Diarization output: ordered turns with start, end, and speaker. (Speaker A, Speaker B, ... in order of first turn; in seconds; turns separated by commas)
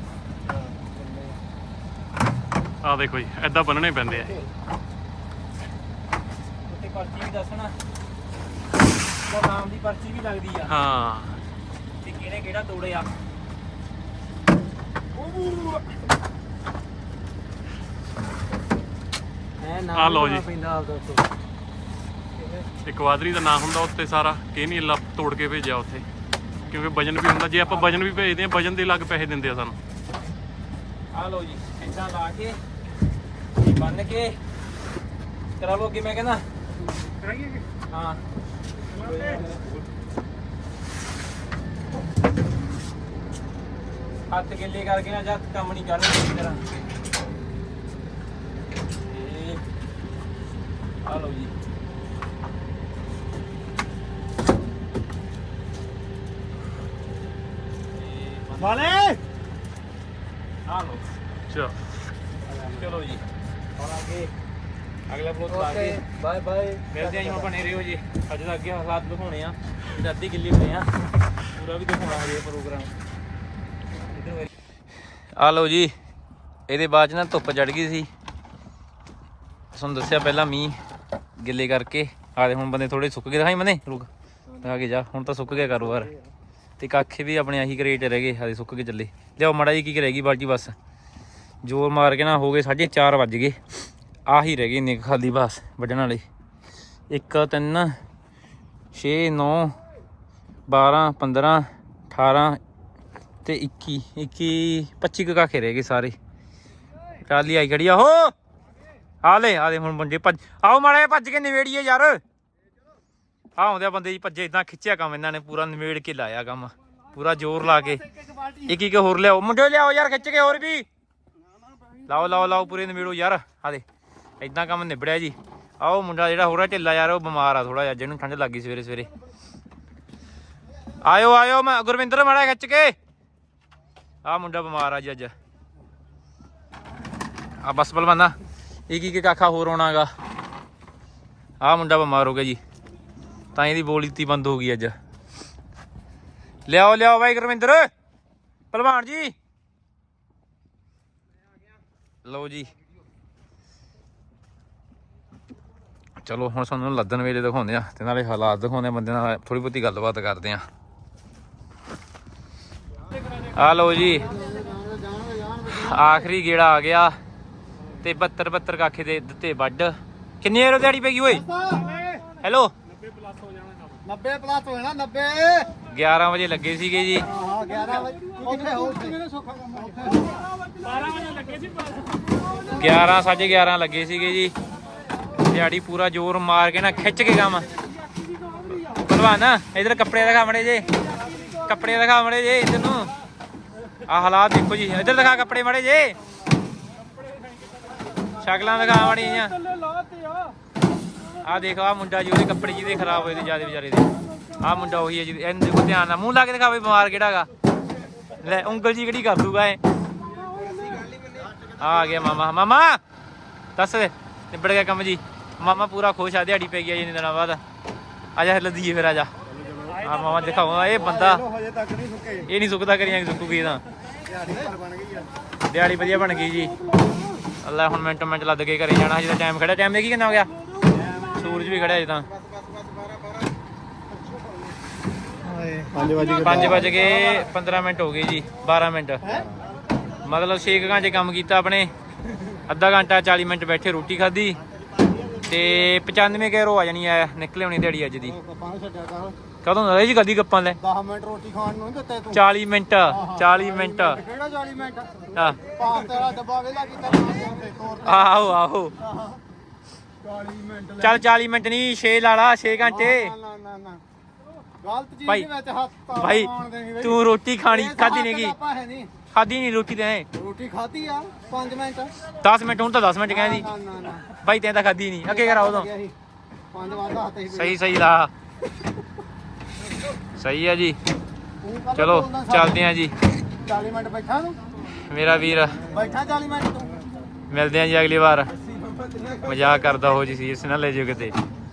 Speaker A: 0.5-1.4, Speaker B: 2.8-4.3, Speaker C: 6.7-7.8, Speaker C: 9.3-10.8, Speaker B: 10.7-11.4, Speaker C: 12.0-13.1, Speaker A: 19.6-21.3, Speaker B: 19.9-20.5, Speaker B: 22.8-26.1, Speaker B: 26.6-29.8, Speaker C: 31.1-32.6, Speaker C: 33.6-34.4, Speaker C: 35.6-36.4, Speaker C: 37.9-38.2, Speaker C: 39.0-39.6, Speaker C: 44.3-46.6, Speaker C: 49.1-49.6, Speaker C: 51.1-51.5, Speaker C: 58.0-58.9, Speaker A: 58.8-59.1, Speaker C: 60.7-61.0, Speaker B: 61.5-61.8, Speaker A: 62.5-62.8, Speaker C: 62.7-63.2, Speaker C: 63.8-64.3, Speaker C: 65.1-66.0, Speaker A: 65.5-67.5, Speaker C: 66.9-70.9, Speaker C: 71.5-72.9, Speaker C: 74.1-74.5, Speaker C: 75.4-76.0, Speaker C: 76.7-78.1, Speaker C: 79.7-80.8, Speaker C: 81.4-86.1, Speaker C: 86.8-90.8, Speaker C: 91.6-93.6, Speaker C: 94.3-96.2, Speaker C: 97.1-97.9, Speaker C: 98.9-99.8, Speaker C: 100.7-102.6, Speaker C: 103.5-106.2, Speaker C: 107.2-108.3, Speaker C: 109.2-112.2, Speaker C: 113.6-118.0, Speaker A: 118.1-118.7, Speaker C: 118.7-120.9, Speaker C: 122.1-123.8, Speaker C: 124.4-129.1, Speaker C: 131.0-132.9, Speaker C: 134.2-135.3, Speaker C: 137.6-138.4, Speaker C: 138.9-140.1, Speaker C: 141.6-142.6, Speaker C: 143.5-144.9, Speaker C: 146.7-147.9, Speaker C: 148.7-149.3, Speaker C: 152.2-152.7, Speaker C: 156.2-160.7, Speaker C: 163.4-164.3, Speaker A: 164.2-166.3, Speaker C: 165.7-167.2, Speaker C: 168.0-171.4, Speaker A: 171.3-172.3, Speaker C: 172.4-172.7, Speaker B: 173.1-173.9, Speaker A: 174.1-175.7, Speaker C: 175.9-177.3, Speaker A: 177.2-180.7, Speaker B: 180.9-181.7, Speaker C: 182.7-184.5, Speaker C: 185.4-187.7, Speaker C: 188.9-190.9, Speaker C: 191.5-193.1, Speaker C: 194.1-196.2, Speaker C: 198.4-199.6, Speaker C: 201.4-207.5, Speaker C: 208.4-209.8, Speaker C: 211.8-213.0, Speaker C: 213.8-217.6, Speaker C: 218.3-219.3, Speaker D: 219.5-220.0, Speaker C: 220.0-221.4, Speaker D: 221.0-222.4, Speaker C: 222.5-223.8, Speaker D: 224.3-225.3, Speaker C: 225.7-226.7, Speaker C: 227.6-230.5, Speaker C: 231.3-232.3, Speaker A: 235.4-237.1, Speaker D: 235.9-236.9, Speaker C: 236.4-239.2, Speaker C: 240.2-241.9, Speaker C: 242.7-244.6, Speaker C: 245.4-248.4, Speaker A: 248.2-249.4, Speaker C: 249.6-250.8, Speaker A: 250.8-252.4, Speaker C: 252.3-254.2, Speaker A: 253.1-259.4, Speaker C: 255.3-255.6, Speaker C: 258.0-258.9, Speaker A: 260.2-261.2, Speaker C: 261.0-263.3, Speaker A: 262.8-264.0, Speaker A: 264.8-269.1, Speaker C: 266.1-268.6, Speaker C: 269.3-270.3, Speaker A: 270.3-272.1, Speaker C: 272.4-273.7, Speaker A: 273.3-274.3, Speaker C: 274.3-275.9, Speaker A: 275.3-276.1, Speaker A: 276.7-277.8, Speaker C: 277.5-278.3, Speaker C: 280.4-281.0, Speaker A: 281.6-282.8, Speaker C: 281.9-283.1, Speaker A: 283.6-284.6, Speaker C: 285.1-285.8, Speaker A: 285.8-287.0, Speaker C: 287.5-288.5, Speaker C: 289.4-291.4